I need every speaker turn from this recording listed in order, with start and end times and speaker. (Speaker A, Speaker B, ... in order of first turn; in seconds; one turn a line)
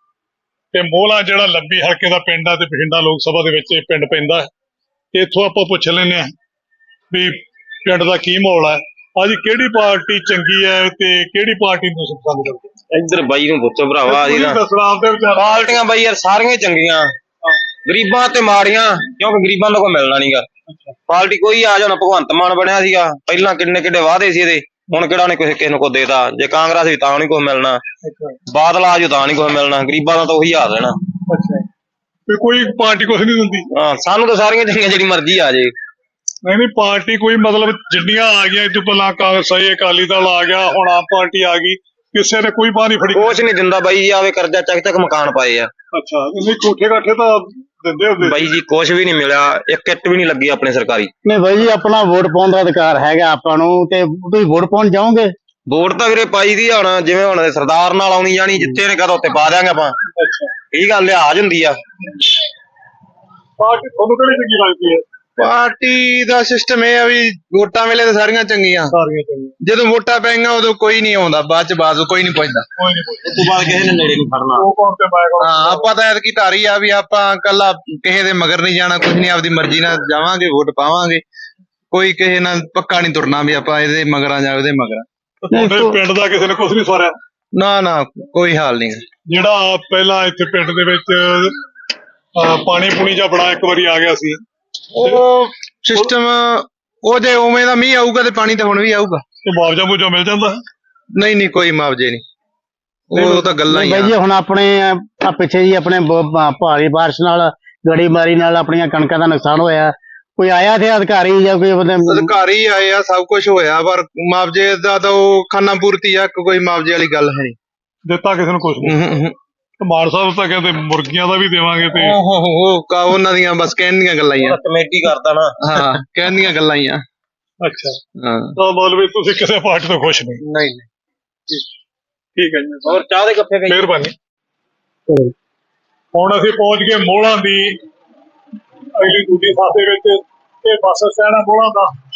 Speaker A: 0.7-4.5
Speaker A: 5.1-6.3
Speaker A: 7.1-12.6
Speaker B: 12.9-14.6
Speaker A: 14.0-15.8
Speaker B: 15.3-17.1
Speaker B: 17.9-20.5
Speaker B: 21.1-27.8
Speaker A: 28.0-28.4
Speaker B: 28.5-30.9
Speaker A: 31.3-31.6
Speaker A: 32.3-33.7
Speaker B: 33.8-35.7
Speaker A: 36.4-43.5
Speaker B: 43.1-45.7
Speaker A: 45.9-48.4
Speaker B: 48.2-51.1
Speaker C: 51.2-55.3
Speaker B: 55.7-59.9
Speaker A: 60.2-60.5
Speaker B: 60.7-61.8
Speaker A: 63.6-65.0
Speaker D: 65.4-68.9
Speaker A: 68.9-69.5
Speaker D: 69.6-72.6
Speaker A: 72.8-73.5
Speaker B: 73.3-74.6
Speaker A: 74.5-75.9
Speaker D: 75.4-81.2
Speaker D: 81.9-85.0
Speaker A: 85.4-87.2
Speaker C: 85.5-86.0
Speaker D: 87.5-89.0
Speaker A: 89.3-91.5
Speaker A: 92.3-94.4
Speaker D: 95.0-99.2
Speaker A: 99.4-100.6
Speaker D: 101.2-102.2
Speaker D: 103.1-104.1
Speaker A: 103.1-103.5
Speaker C: 103.7-112.3
Speaker D: 112.0-117.5
Speaker A: 118.0-119.0
Speaker D: 118.8-119.3
Speaker A: 119.8-122.2
Speaker D: 122.0-124.6
Speaker B: 124.4-125.6
Speaker D: 125.6-127.0
Speaker A: 127.6-128.0
Speaker D: 128.2-128.5
Speaker A: 128.6-130.4
Speaker D: 130.5-130.8
Speaker A: 132.3-133.0
Speaker B: 132.8-133.8
Speaker A: 133.7-134.1
Speaker A: 136.1-137.7
Speaker A: 139.0-141.9